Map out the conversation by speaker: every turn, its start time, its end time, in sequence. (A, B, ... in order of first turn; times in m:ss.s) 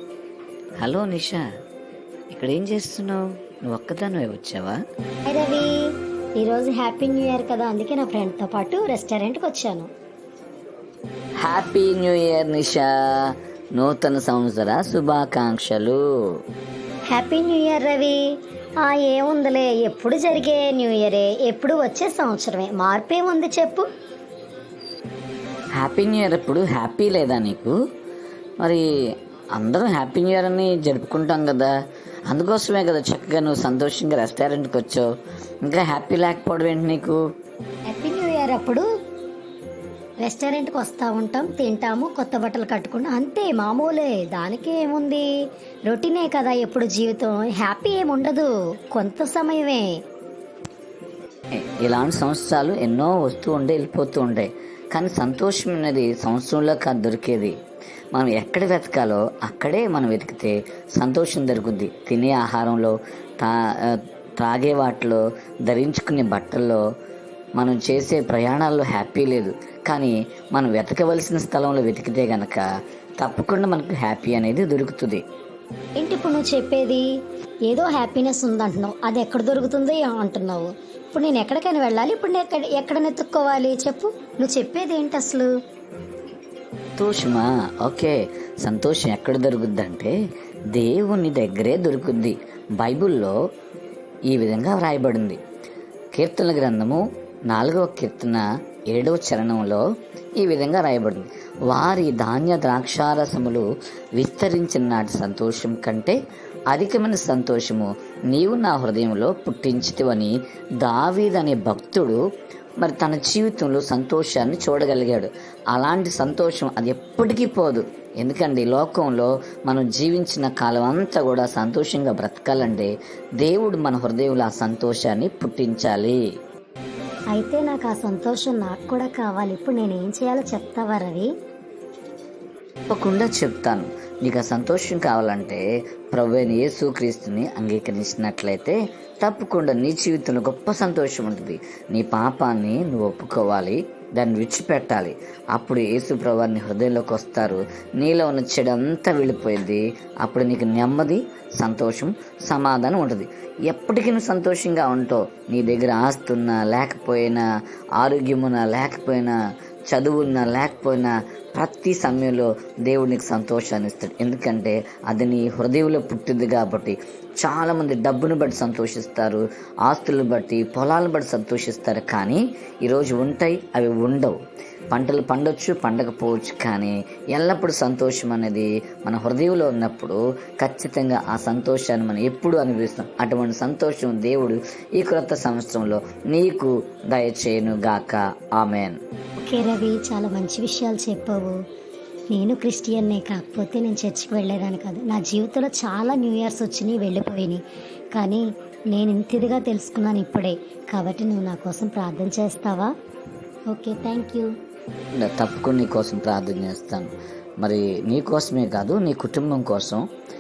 0:00.8-0:01.4 A
0:02.3-0:04.8 A
0:05.3-0:05.7 B
0:06.4-0:09.9 B
0:11.4-0:16.0 A
0:17.1-0:18.2 B
0:18.8-0:23.9 B
0:25.8-0:27.8 A
0:28.6-0:28.8 A
0:29.6-0:31.7 A
0:32.3-0:35.1 A
0:35.6-0:37.2 A
0:37.9-0:38.9 B
0:40.2-0:45.3 B
0:45.9-0:49.9 B
0:51.5-0:57.6 A
0:58.1-1:06.8 A
1:07.6-1:12.7 A
1:13.2-1:15.2 A
1:16.0-1:17.1 B
1:17.7-1:25.5 B
1:27.0-1:30.1 A
1:30.7-1:33.4 A
1:34.3-1:35.4 A
1:36.2-1:39.8 A
1:40.4-1:46.2 A
1:46.7-1:52.2 A
1:52.8-2:06.2 A
2:07.4-2:11.3 B
2:12.9-2:37.4 A
2:38.0-2:39.4 A
2:39.9-2:54.4 A
2:54.9-3:09.0 A
3:09.4-3:11.6 B
3:12.3-3:17.6 B
3:18.2-3:22.9 B
3:23.7-3:24.5 B
3:25.2-3:27.1 A
3:27.6-3:30.0 A